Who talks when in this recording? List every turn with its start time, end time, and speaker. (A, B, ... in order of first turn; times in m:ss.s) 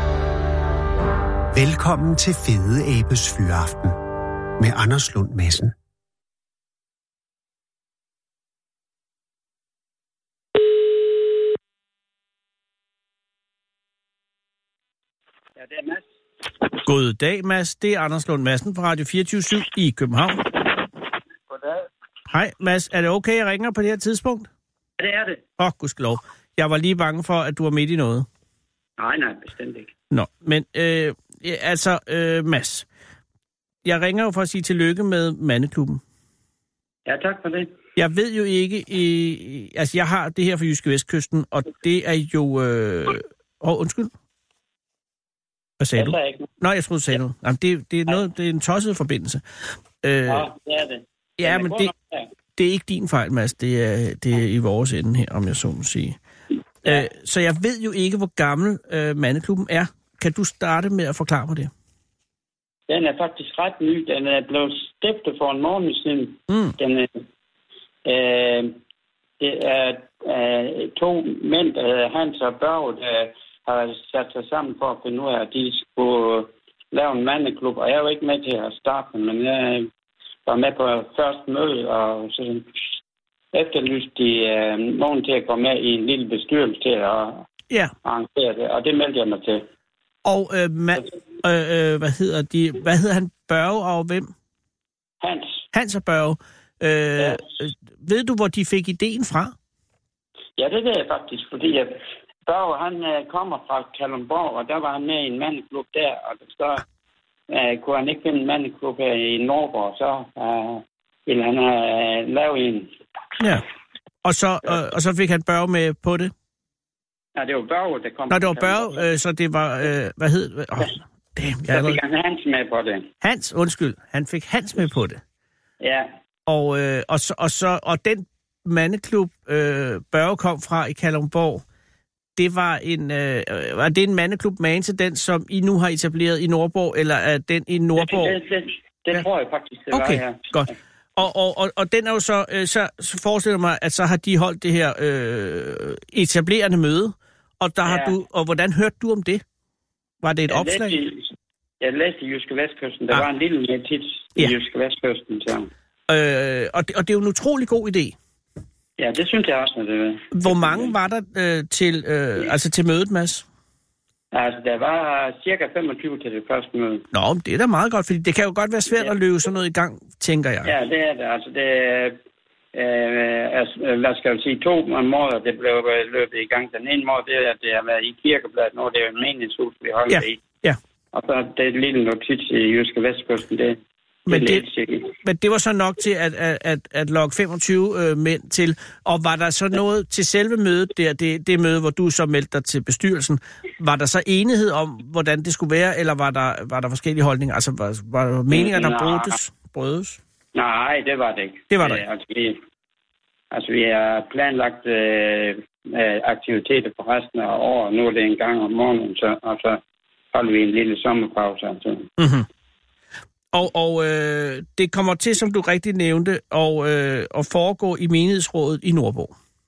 0:01.5-0:04.0 A
0:04.6-0:05.7 A
0:15.6-0:16.0 B
0:16.8-0:20.4 C
0:21.5-0:21.9 B
0:22.3-0:24.5 C
0:25.0-0:25.4 B
0:25.6-0:28.3 C
0:29.0-0:29.9 B
0:30.1-0:32.9 C
0:33.8-0:36.0 C
0:37.1-0:37.7 B
0:38.0-0:44.1 C
0:45.8-0:49.4 C
0:46.0-0:46.5 B
0:50.0-0:50.5 C
0:50.3-0:52.3 B
0:51.4-0:51.9 C
0:52.6-0:56.2 C
0:56.8-1:01.7 C
1:02.9-1:07.1 B
1:06.5-1:06.8 C
1:08.0-1:08.8 B
1:09.4-1:19.9 B
1:20.5-1:22.7 B
1:23.5-1:27.4 B
1:28.0-1:29.6 B
1:30.2-1:34.3 C
1:35.2-1:35.6 B
1:35.7-1:39.5 C
1:40.6-1:46.8 B
1:47.5-1:52.9 B
1:54.2-1:56.3 C
1:57.4-1:59.1 B
1:58.3-2:02.0 C
2:01.7-2:03.1 B
2:03.2-2:05.2 C
2:05.8-2:06.1 B
2:06.5-2:11.6 C
2:12.4-2:18.4 C
2:18.0-2:20.7 B
2:19.9-2:29.4 C
2:27.8-2:28.1 B
2:30.2-2:31.0 C
2:30.5-2:35.7 B
2:36.1-2:38.2 C
2:39.0-2:40.9 B
2:40.3-2:43.4 C
2:44.3-2:47.0 B
2:47.1-2:50.7 C
2:50.6-2:52.2 B
2:52.7-3:00.4 B
3:00.1-3:00.8 C
3:01.1-3:03.8 B
3:04.3-3:04.6 C
3:04.3-3:05.1 B
3:05.2-3:20.2 C
3:18.5-3:19.4 B
3:20.6-3:22.6 B
3:21.7-3:22.0 C
3:23.5-3:29.8 B
3:30.3-3:32.1 B
3:32.2-3:32.5 C
3:33.5-3:39.3 C